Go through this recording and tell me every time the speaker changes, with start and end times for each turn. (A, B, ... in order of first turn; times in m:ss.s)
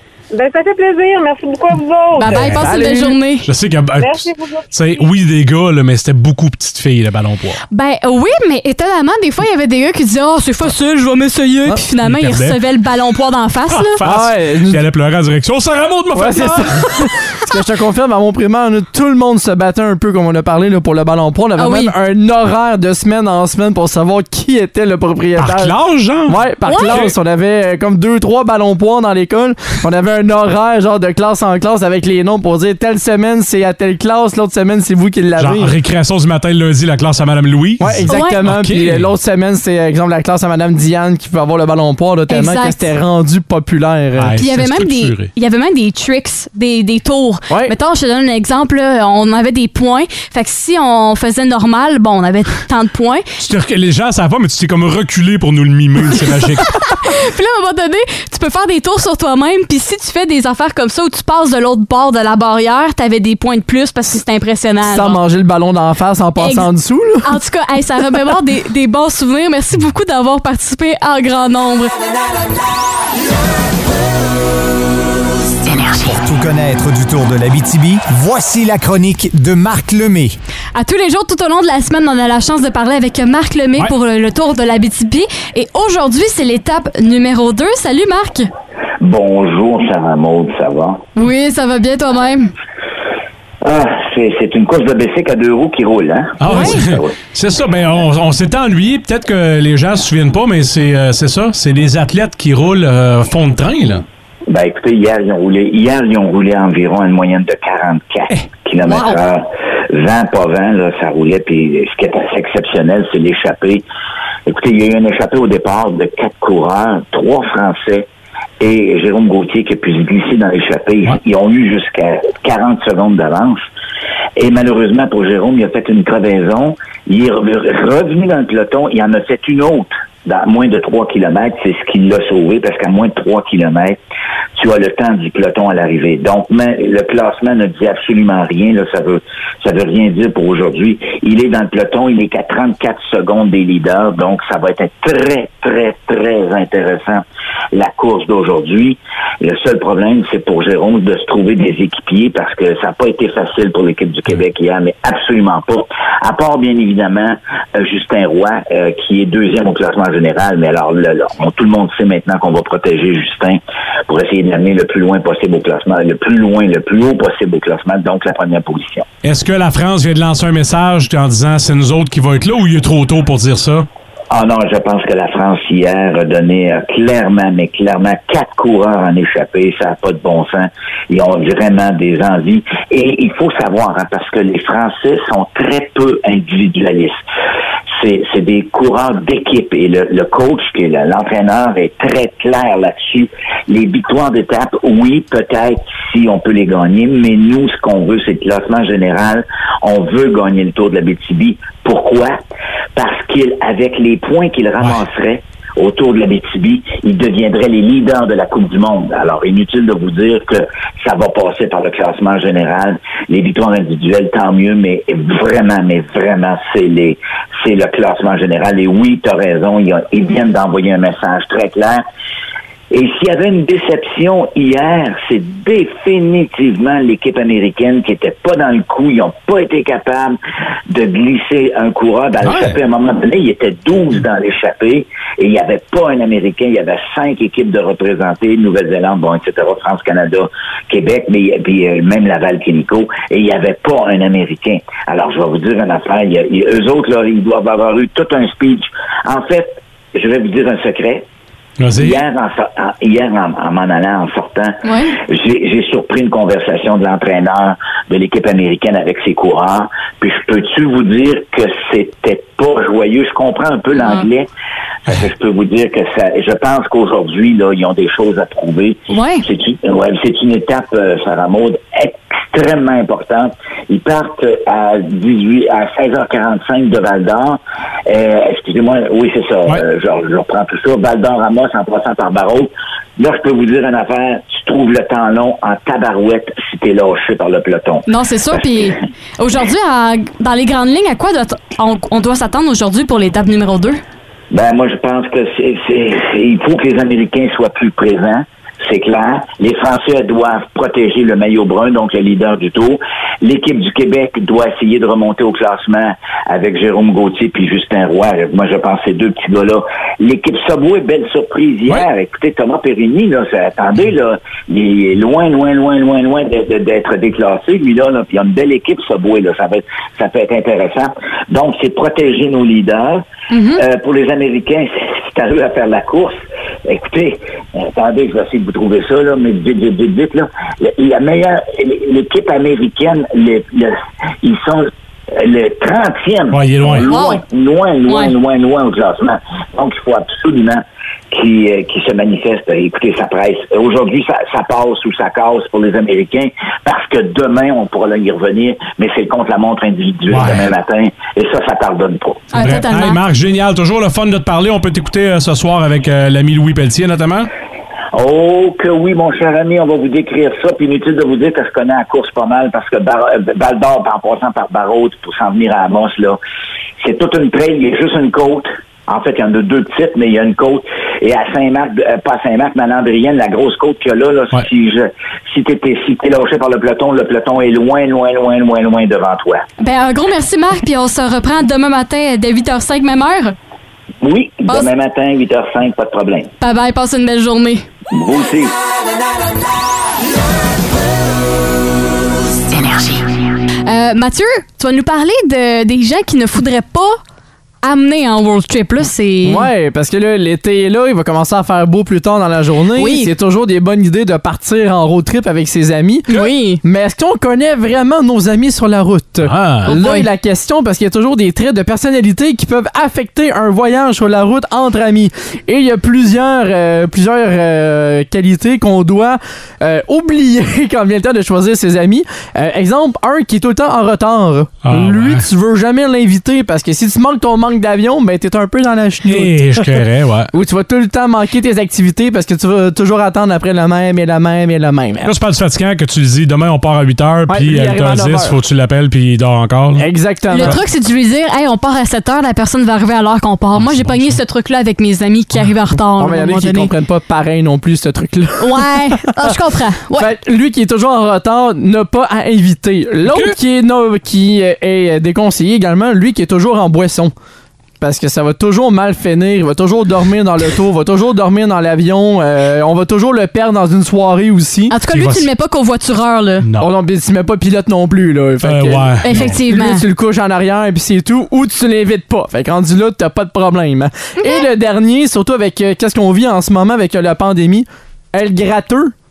0:00.3-0:02.5 A
0:02.2-0:03.5 B
0:02.3-0:02.7 C
0:02.6-0:03.2 D
0:03.4-0:07.6 C
0:04.0-0:04.7 A
0:07.7-0:14.0 B
0:12.0-0:12.6 C
0:13.7-0:16.9 C
0:14.0-0:14.8 D
0:16.2-0:35.8 D
0:21.6-0:21.9 B
0:25.4-0:27.2 C
0:26.6-0:27.0 B
0:35.4-0:39.1 C
0:37.8-0:44.4 D
0:38.1-0:38.4 B
0:42.3-0:42.9 B
0:44.2-0:45.3 C
0:44.4-0:53.2 B
0:47.5-0:47.7 D
0:53.4-0:56.8 C
0:56.8-1:05.2 B
1:04.8-1:07.3 D
1:06.4-1:06.7 B
1:07.2-1:11.9 B
1:16.0-1:20.4 E
1:20.8-1:28.5 B
1:29.0-1:31.0 F
1:31.2-1:32.5 B
1:33.6-1:37.2 F
1:36.4-1:44.0 C
1:36.5-1:36.8 B
1:44.5-1:53.8 F
1:54.5-1:58.1 F
1:58.6-2:03.6 F
2:04.4-2:14.0 F
2:14.6-2:49.1 F
2:49.2-2:53.9 C
2:54.3-3:07.2 F
3:08.0-3:22.4 F
3:23.0-3:42.0 F
3:42.9-3:50.4 F
3:50.9-4:11.2 F
4:11.8-4:12.2 C
4:11.9-4:24.5 F
4:14.8-4:15.2 B
4:24.0-4:24.3 B
4:25.1-4:48.9 F
4:29.1-4:29.5 B
4:48.1-4:54.0 B
4:54.5-5:52.6 F
5:23.5-5:23.8 B
5:36.5-5:37.1 C
5:37.0-5:37.4 B
5:38.1-5:38.3 B
5:50.3-5:50.7 C
5:52.5-5:53.2 B
5:52.5-5:57.5 C
5:58.1-6:06.4 F
6:07.0-6:19.6 F
6:19.8-6:23.5 B
6:24.2-6:26.5 F
6:26.6-6:27.9 B
6:28.1-6:28.7 F
6:33.9-6:37.2 B
6:37.8-6:39.7 B
6:39.4-7:15.3 D
6:43.0-6:43.3 B
6:46.3-6:46.8 B
6:49.4-6:49.9 C
6:49.9-6:50.3 B
7:04.8-7:05.5 C
7:09.2-7:10.5 C
7:15.2-7:20.1 C
7:17.5-7:18.6 D
7:20.0-7:20.8 D
7:20.5-7:26.9 B
7:23.8-7:24.4 C
7:26.2-7:29.5 D
7:28.6-7:30.3 B
7:30.2-7:37.3 D
7:33.2-7:33.6 C
7:38.0-7:45.0 D
7:44.9-7:46.7 B
7:45.1-7:45.5 C
7:46.6-7:46.9 C
7:46.8-7:59.1 D
7:48.6-7:49.6 C
7:49.2-7:50.0 B
7:54.4-7:54.7 B